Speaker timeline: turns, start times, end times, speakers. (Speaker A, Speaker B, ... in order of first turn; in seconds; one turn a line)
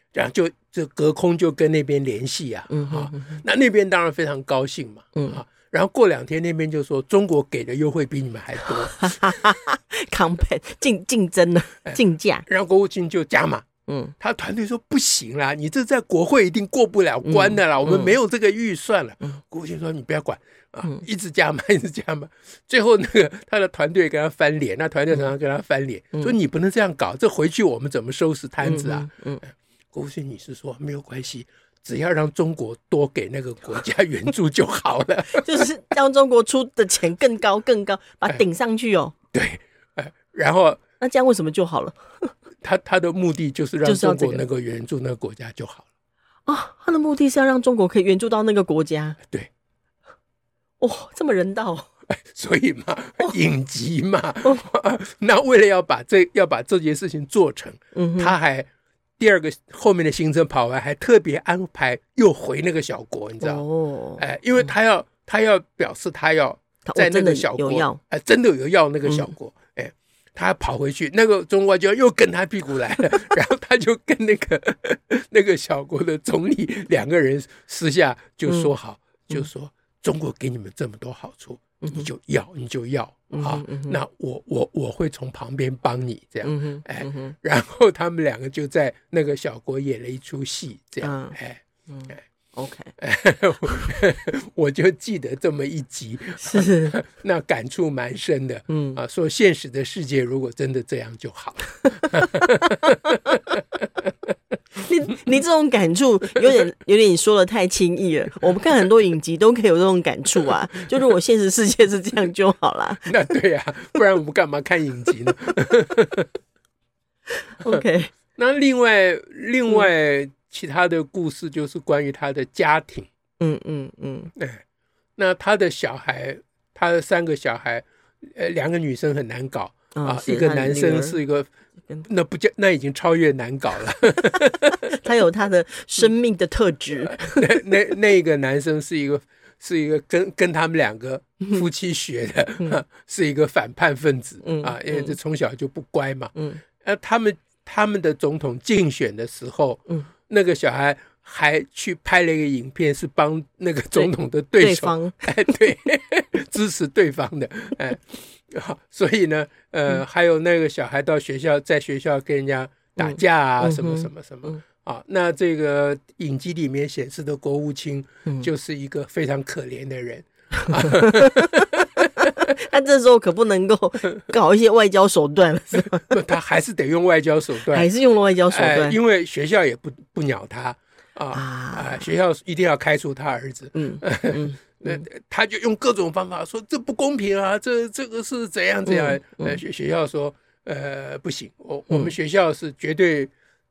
Speaker A: 0.1-9.4
Speaker B: 2.7-3.4
Speaker B: 5.2-5.4
Speaker B: 8.6-12.5
Speaker A: 11.8-13.7
Speaker B: 13.9-14.1
Speaker A: 14.2-35.7
Speaker B: 17.2-18.1
Speaker B: 28.6-29.4
Speaker B: 35.3-39.1
Speaker A: 39.3-40.8
Speaker B: 41.0-42.3
Speaker A: 42.6-45.9
Speaker B: 43.8-44.4
Speaker B: 46.5-49.2
Speaker B: 50.8-51.9
Speaker A: 52.1-58.7
Speaker B: 57.9-58.4
Speaker A: 59.2-63.6
Speaker B: 63.4-64.2
Speaker A: 64.2-91.6
Speaker B: 66.8-68.0
Speaker B: 69.1-69.3
Speaker B: 78.5-78.7
Speaker B: 81.8-82.1
Speaker B: 83.3-84.0
Speaker B: 86.4-87.3
Speaker B: 91.0-91.4
Speaker B: 91.9-92.9
Speaker A: 93.0-103.4
Speaker B: 96.4-97.0
Speaker B: 98.7-99.0
Speaker B: 102.5-103.2
Speaker B: 104.8-113.1
Speaker A: 113.0-116.3
Speaker B: 117.5-118.1
Speaker A: 118.4-123.1
Speaker B: 123.4-124.3
Speaker A: 124.3-124.6
Speaker A: 125.2-131.5
Speaker B: 129.9-131.2
Speaker A: 132.0-135.0
Speaker B: 134.8-137.5
Speaker A: 137.0-172.5
Speaker B: 144.4-145.2
Speaker B: 146.3-146.6
Speaker B: 154.0-155.6
Speaker B: 163.0-164.6
Speaker B: 170.7-171.6
Speaker B: 172.2-176.2
Speaker A: 175.7-177.9
Speaker B: 177.6-179.0
Speaker A: 178.5-193.3
Speaker B: 181.3-182.1
Speaker B: 183.8-185.1
Speaker B: 188.9-189.6